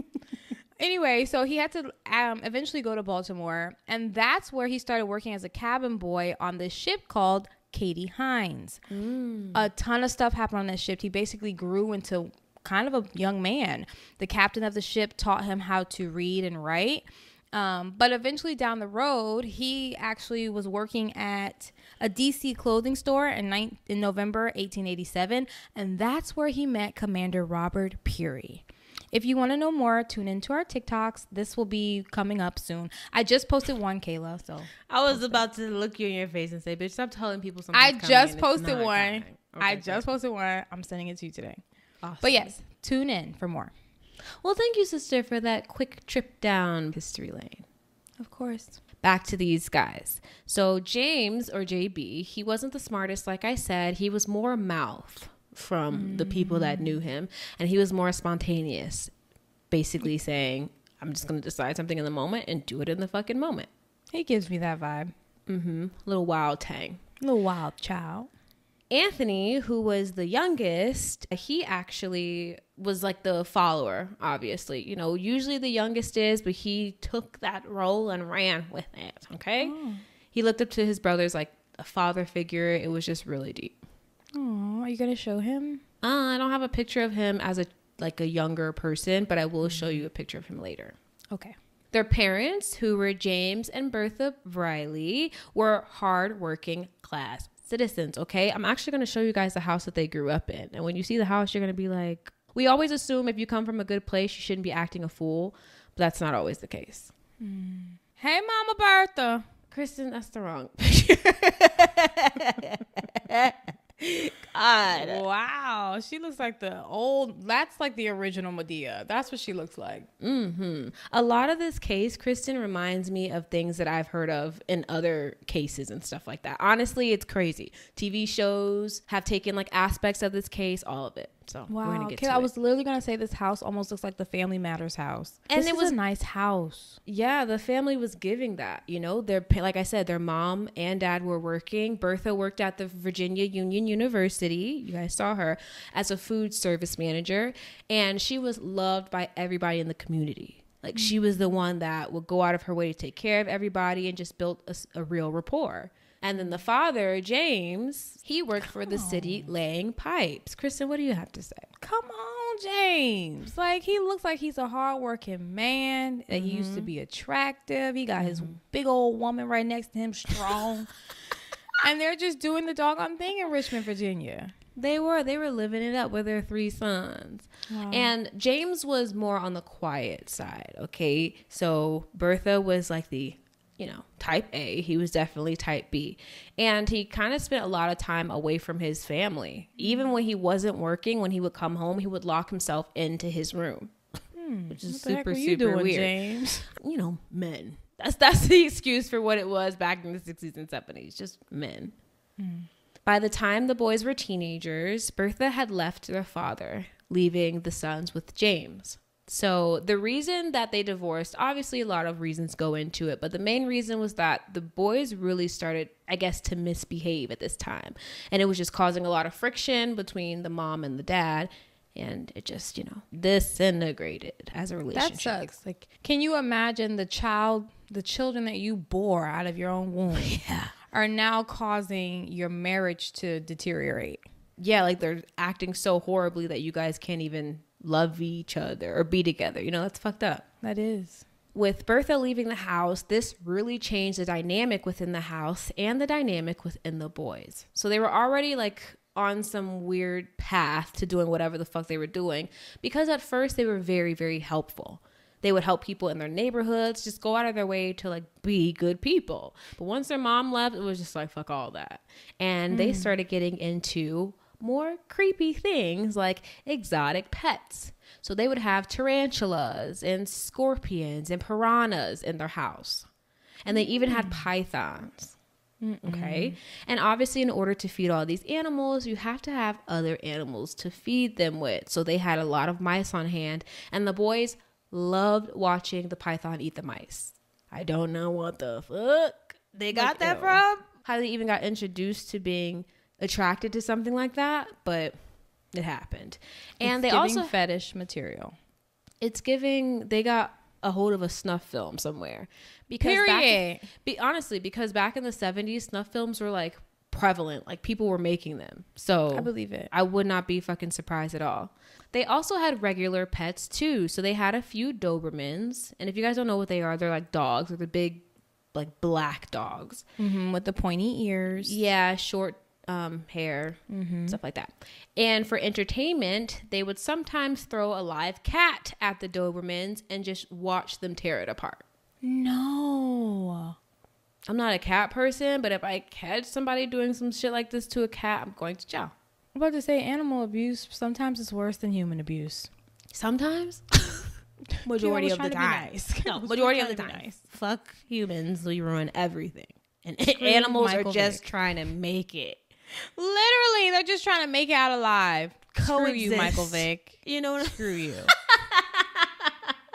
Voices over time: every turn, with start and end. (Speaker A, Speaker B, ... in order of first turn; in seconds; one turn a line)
Speaker A: 0.8-8.8
Speaker B: 8.9-9.6
Speaker A: 9.5-35.4
Speaker B: 34.9-40.0
Speaker A: 37.7-41.6
Speaker B: 42.0-42.6
Speaker A: 42.2-43.7
Speaker B: 44.4-47.6
Speaker A: 48.2-48.8
Speaker B: 49.0-59.1
Speaker A: 55.9-57.0
Speaker B: 59.7-63.7
Speaker A: 64.1-65.1
Speaker B: 65.5-67.0
Speaker A: 67.2-68.3
Speaker B: 68.9-79.7
Speaker A: 79.6-80.0
Speaker B: 80.3-83.8
Speaker A: 84.3-85.8
Speaker B: 86.0-91.0
Speaker A: 89.6-90.0
Speaker B: 91.9-107.1
Speaker A: 107.4-109.4
Speaker B: 109.7-115.2
Speaker A: 114.9-120.1
Speaker B: 120.2-132.5
Speaker A: 131.7-137.0
Speaker B: 135.5-135.9
Speaker B: 137.1-161.7
Speaker A: 150.9-151.5
Speaker A: 158.8-159.5
Speaker A: 161.8-170.9
Speaker B: 166.3-166.9
Speaker B: 168.2-168.5
Speaker A: 171.8-174.5
Speaker B: 174.8-193.9
Speaker A: 177.7-178.1
Speaker A: 189.8-190.0
Speaker A: 194.3-196.7
Speaker B: 194.7-196.1
Speaker B: 196.7-201.9
Speaker A: 202.4-202.7
Speaker B: 203.0-225.5
Speaker A: 224.9-234.2
Speaker B: 230.1-230.7
Speaker B: 234.6-240.4
Speaker A: 240.6-241.2
Speaker B: 241.5-273.1
Speaker A: 262.7-263.1
Speaker B: 273.6-275.4
Speaker A: 273.7-274.4
Speaker A: 275.8-276.6
Speaker B: 276.0-295.1
Speaker A: 289.9-290.6
Speaker B: 295.7-297.5
Speaker A: 296.8-298.6
Speaker B: 299.2-318.2
Speaker A: 303.0-303.9
Speaker A: 309.3-309.9
Speaker B: 318.7-320.0
Speaker A: 320.2-321.8
Speaker B: 321.5-331.8
Speaker A: 323.9-324.4
Speaker A: 332.2-333.8
Speaker B: 334.5-339.1
Speaker A: 339.5-342.7
Speaker B: 343.1-352.6
Speaker A: 344.8-347.4
Speaker A: 350.4-351.4
Speaker A: 353.1-358.3
Speaker B: 355.7-359.5